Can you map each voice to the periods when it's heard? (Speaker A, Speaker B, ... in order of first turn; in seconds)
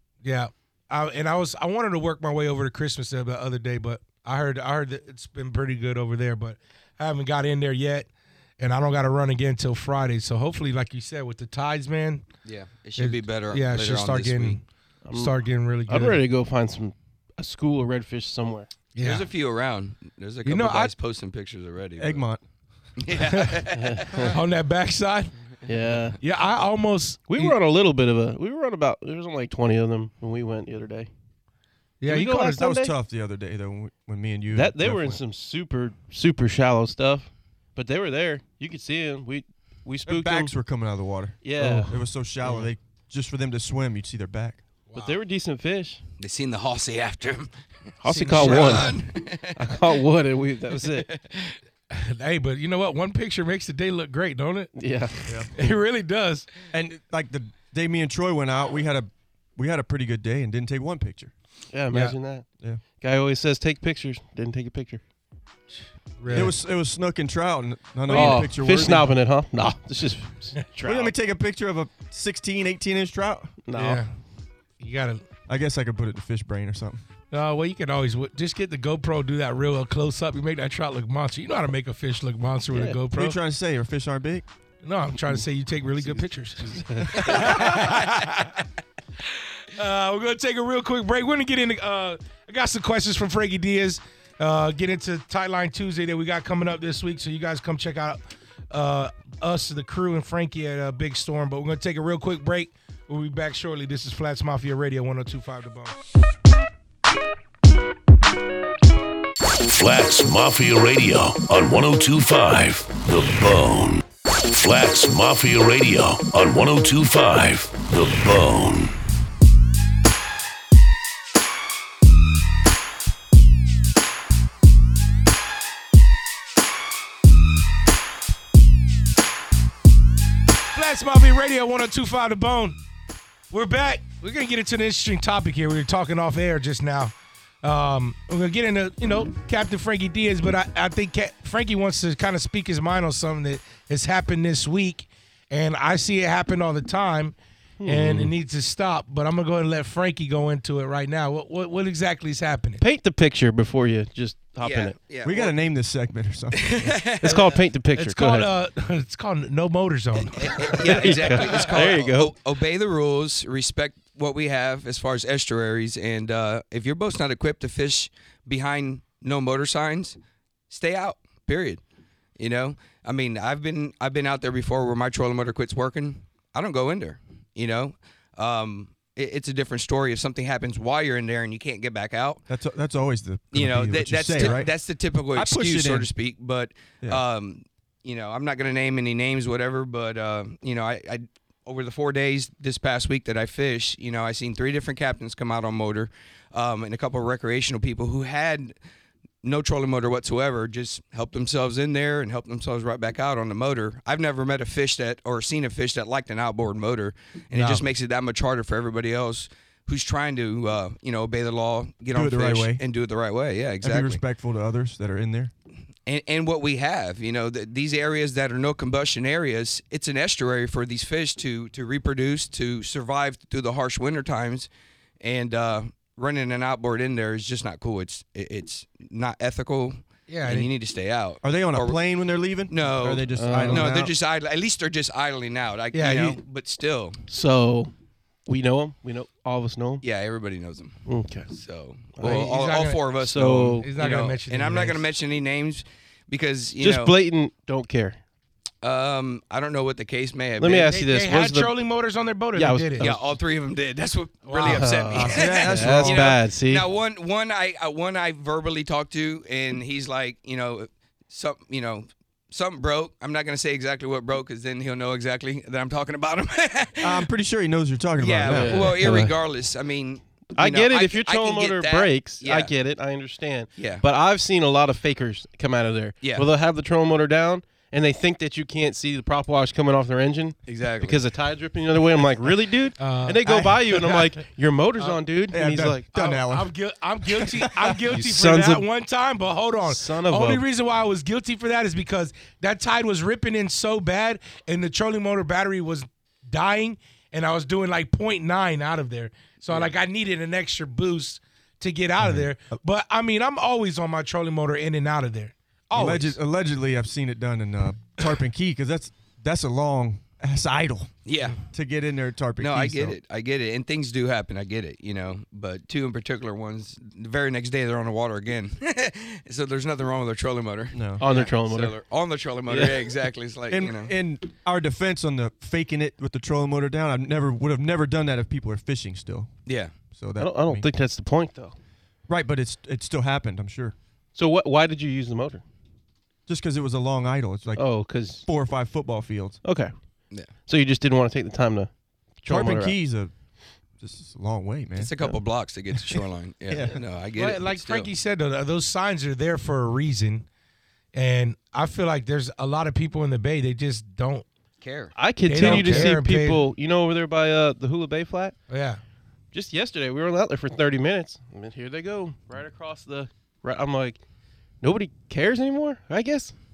Speaker A: 0.2-12.2, 13.0-16.2, 18.9-19.3, 20.4-20.9, 23.3-23.6, 24.3-25.3, 26.2-27.6, 32.0-32.5, 48.1-49.0, 51.9-54.7, 55.5-56.5, 61.9-62.2, 66.2-66.6, 68.1-68.4, 73.8-74.1, 74.8-75.2, 77.3-83.4, 84.8-88.7, 89.7-106.0, 130.7-132.8, 133.5-147.3, 147.9-152.8, 158.0-161.7, 207.5-207.8, 230.3-230.7, 235.9-236.4, 242.2-243.0, 243.8-245.0, 250.9-253.1, 254.4-255.3, 283.0-283.5, 286.1-306.4, 347.4-350.5, 351.1-354.4, 355.5-356.6, 358.7-359.0
Speaker B: 12.4-14.6, 19.0-22.2, 23.0-24.3, 46.2-47.5, 48.4-49.9, 50.8-51.6, 154.6-155.5, 156.6-157.6, 160.4-170.2, 170.7-171.8, 172.4-182.4, 183.5-198.7, 199.4-214.2, 216.1-224.7, 225.2-232.0, 232.7-237.2, 240.0-247.2, 248.8-250.9, 253.0-267.3, 268.2-272.7, 273.8-274.1, 276.2-276.5, 280.7-281.2, 311.2-311.6, 312.6-324.1, 329.7-329.9, 345.0-348.1, 354.8-356.1
Speaker C: 15.1-18.7, 23.7-24.4, 25.7-26.2, 27.3-31.1, 32.1-32.9, 34.5-40.5, 41.4-41.9, 45.0-46.0, 48.0-49.0, 49.6-51.1, 54.8-55.2, 61.7-62.5, 63.0-65.0, 68.1-71.1, 73.7-74.0, 82.7-83.0, 86.7-87.7, 147.8-148.3, 152.8-154.9, 157.2-158.5, 160.8-162.3, 233.4-233.9, 237.3-237.9, 238.5-240.0, 241.1-241.5, 242.2-242.5, 243.2-243.9, 246.8-248.2, 250.6-251.7, 252.6-253.2, 254.6-256.9, 268.5-269.3, 270.6-286.1, 288.1-288.9, 289.9-290.6, 321.2-321.9, 322.7-323.1, 330.4-331.8, 334.4-335.6, 337.8-338.5, 339.6-339.9, 340.7-342.9, 355.2-358.6, 359.5-364.2, 364.8-366.6
Speaker D: 22.0-22.4, 32.2-35.2, 40.1-44.6, 56.7-61.3, 66.3-69.1, 70.8-73.5, 75.5-77.0, 83.1-84.5, 87.0-87.7, 155.2-156.9, 182.5-184.7, 185.3-186.1, 212.1-212.8, 213.8-215.5, 231.4-234.1, 255.2-256.3, 267.0-269.3, 283.4-283.8, 285.5-286.7, 287.4-288.1, 302.2-302.8, 305.9-313.2, 320.9-321.2, 323.7-329.5, 330.1-330.9, 332.3-333.9, 336.5-339.6, 342.5-343.3, 344.0-345.4, 345.9-347.0
Speaker E: 109.7-119.0